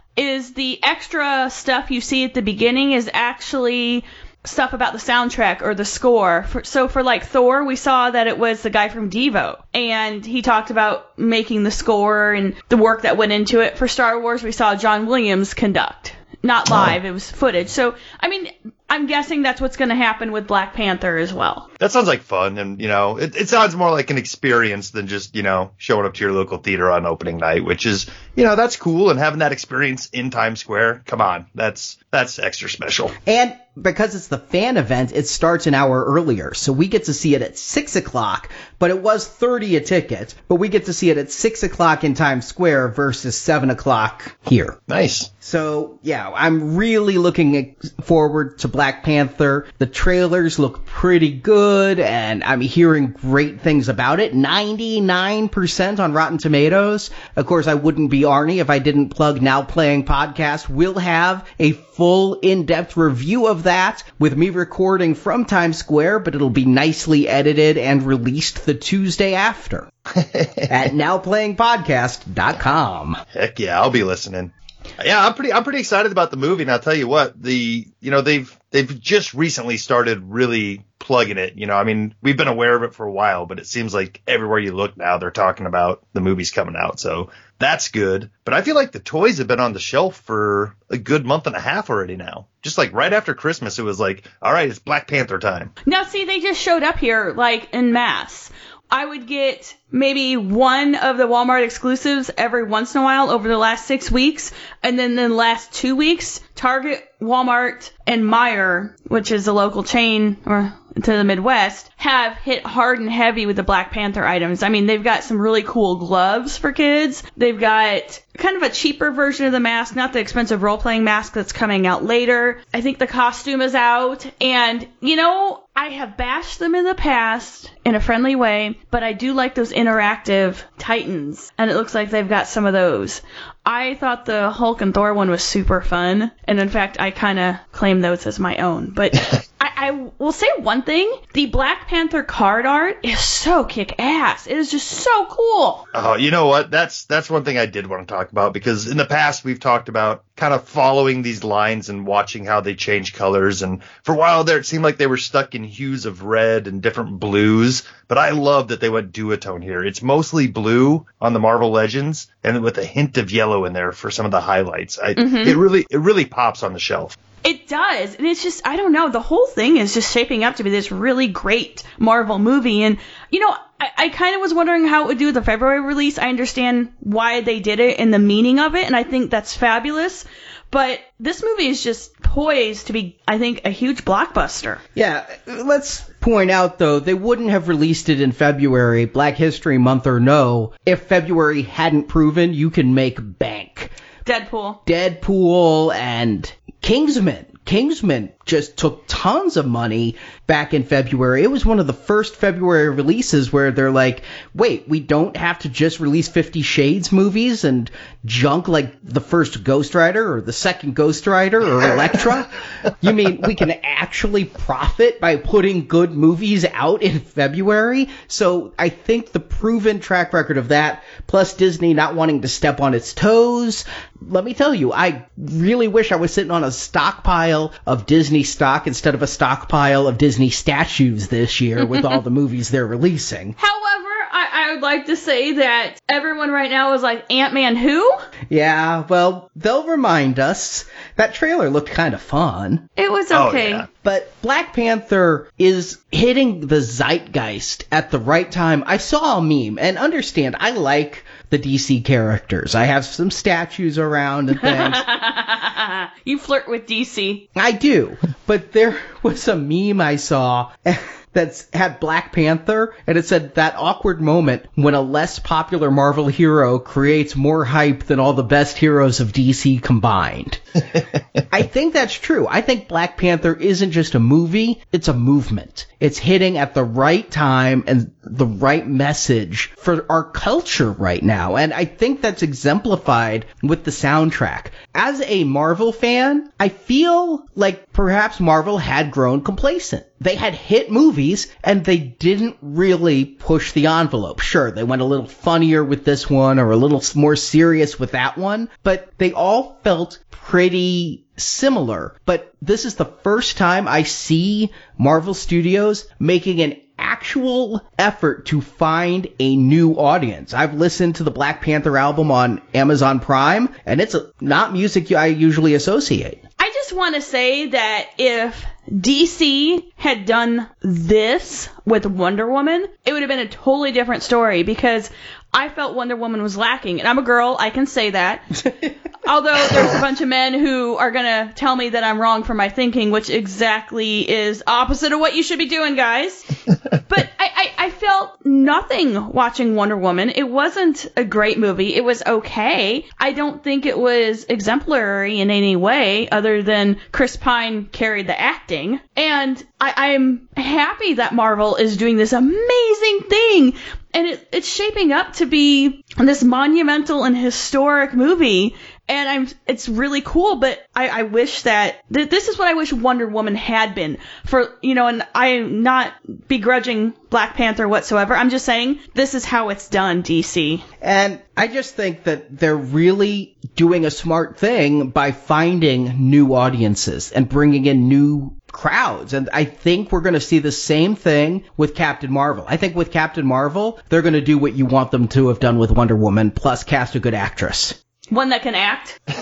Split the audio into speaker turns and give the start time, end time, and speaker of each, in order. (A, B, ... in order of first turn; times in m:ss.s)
0:00.2-0:21.6 A
0:21.8-0:33.1 B
0:33.2-0:44.8 C
0:44.9-0:45.3 B
0:45.4-1:09.9 C
1:10.1-1:10.7 B
1:10.7-1:13.2 C
1:13.3-1:35.7 B
1:35.8-2:25.8 A
2:25.9-2:47.2 B
2:45.2-2:45.6 A
2:47.4-3:04.8 A
3:04.9-3:13.9 C
3:14.2-3:14.8 A
3:14.8-3:53.6 C
3:53.6-3:58.1 A
3:58.5-4:02.9 C
4:03.0-4:03.8 A
4:03.3-4:03.9 B
4:04.0-4:15.0 C
4:14.6-4:17.4 A
4:17.5-4:30.6 C
4:31.5-5:16.4 C
5:16.6-5:28.4 A
5:29.2-5:36.4 A
5:37.1-6:10.8 A
6:11.0-6:28.0 C
6:28.3-6:29.2 A